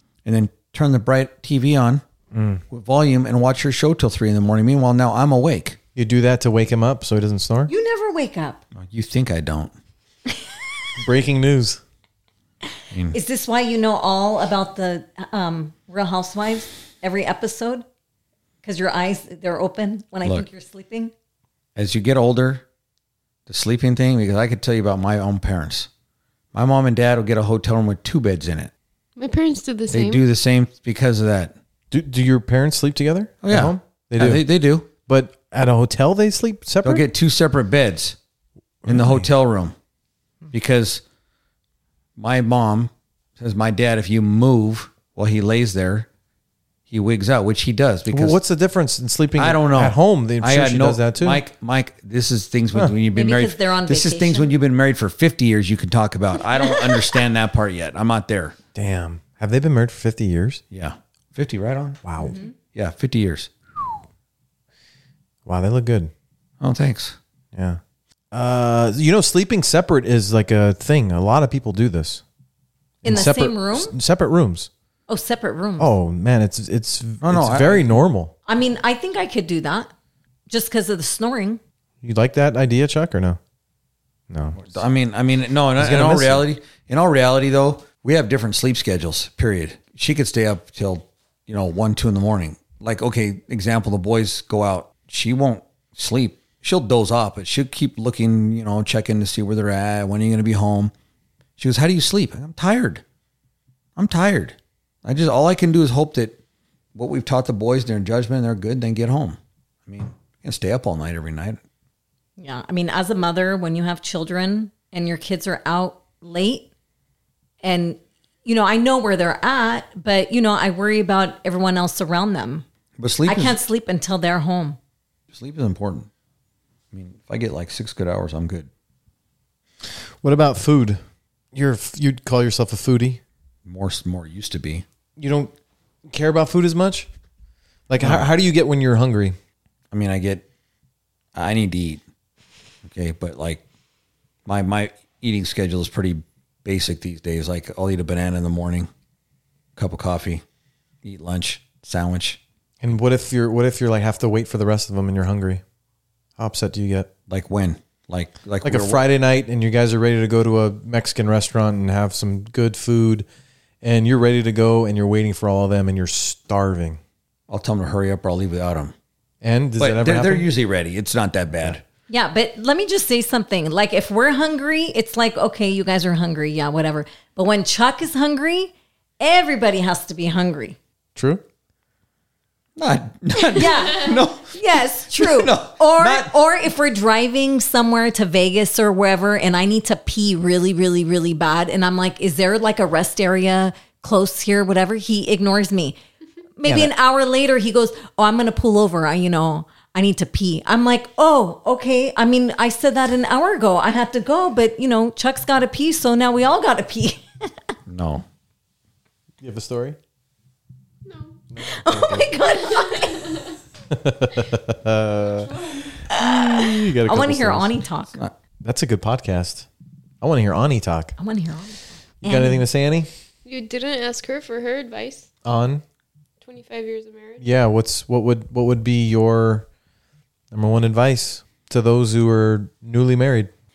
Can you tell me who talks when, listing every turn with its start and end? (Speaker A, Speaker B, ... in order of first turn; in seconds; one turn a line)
Speaker A: 0.2-2.0
Speaker B: 2.3-2.6
Speaker A: 2.7-5.8
Speaker B: 6.0-7.7
Speaker C: 7.7-8.6
Speaker A: 8.8-9.7
Speaker B: 11.0-11.8
Speaker A: 12.9-13.2
Speaker C: 13.1-17.8
Speaker C: 18.6-21.1
Speaker A: 21.8-22.6
Speaker A: 23.5-25.9
Speaker A: 26.5-28.7
Speaker D: 29.2-30.2
Speaker A: 29.9-31.5
Speaker B: 31.9-34.4
Speaker A: 33.4-34.9
Speaker B: 35.0-37.0
Speaker A: 36.8-38.1
Speaker B: 38.8-39.3
Speaker A: 38.9-39.7
Speaker A: 40.5-41.0
Speaker A: 42.2-46.1
Speaker A: 46.9-48.4
Speaker B: 48.1-51.4
Speaker A: 49.4-58.5
Speaker C: 53.1-54.5
Speaker C: 56.7-56.9
Speaker B: 58.7-60.6
Speaker A: 60.7-62.0
Speaker B: 62.0-62.4
Speaker C: 62.2-62.5
Speaker A: 62.7-63.9
Speaker B: 65.5-66.1
Speaker A: 66.6-67.2
Speaker B: 67.5-67.8
Speaker B: 68.3-72.2
Speaker B: 73.0-74.7
Speaker C: 73.0-73.9
Speaker C: 75.1-75.9
Speaker B: 75.8-78.3
Speaker A: 77.2-77.9
Speaker C: 78.5-79.9
Speaker C: 80.5-81.6
Speaker B: 82.0-83.4
Speaker B: 84.3-84.8
Speaker A: 84.6-100.9
Speaker B: 85.8-86.5
Speaker A: 101.6-103.0
Speaker A: 104.0-106.4
Speaker A: 106.9-111.6
Speaker C: 112.4-116.7
Speaker C: 117.6-122.6
Speaker A: 123.0-123.6
Speaker C: 123.2-124.8
Speaker A: 125.3-126.1
Speaker A: 126.9-128.7
Speaker B: 130.2-131.0
Speaker B: 131.5-133.2
Speaker A: 133.7-134.8
Speaker B: 135.2-135.5
Speaker B: 136.1-137.1
Speaker B: 137.9-139.4
Speaker A: 138.0-138.3
Speaker A: 139.9-140.4
Speaker A: 141.3-142.0
Speaker A: 142.8-143.6
Speaker A: 144.4-148.9
Speaker A: 149.8-150.4
Speaker A: 151.0-152.4
Speaker B: 152.8-155.6
Speaker B: 156.4-157.1
Speaker A: 157.3-159.0
Speaker B: 158.6-163.2
Speaker B: 163.8-167.0
Speaker A: 167.5-168.9
Speaker B: 169.4-170.5
Speaker A: 169.8-171.8
Speaker C: 172.1-180.8
Speaker B: 181.1-181.4
Speaker A: 182.8-184.6
Speaker C: 183.4-196.0
Speaker A: 185.1-186.3
Speaker C: 196.6-207.5
Speaker B: 196.6-196.9
Speaker A: 207.9-208.2
Speaker B: 209.4-210.0
Speaker D: 211.1-211.3
Speaker B: 211.5-212.3
Speaker C: 211.6-213.4
Speaker D: 212.7-213.4
Speaker B: 213.9-217.8
Speaker D: 215.6-215.9
Speaker C: 216.1-218.2
Speaker B: 218.6-219.7
Speaker B: 220.2-221.1
Speaker C: 221.2-222.6
Speaker B: 222.2-223.1
Speaker D: 223.4-225.3
Speaker B: 225.4-225.8
Speaker D: 226.4-227.4
Speaker B: 227.4-229.7
Speaker B: 230.5-233.5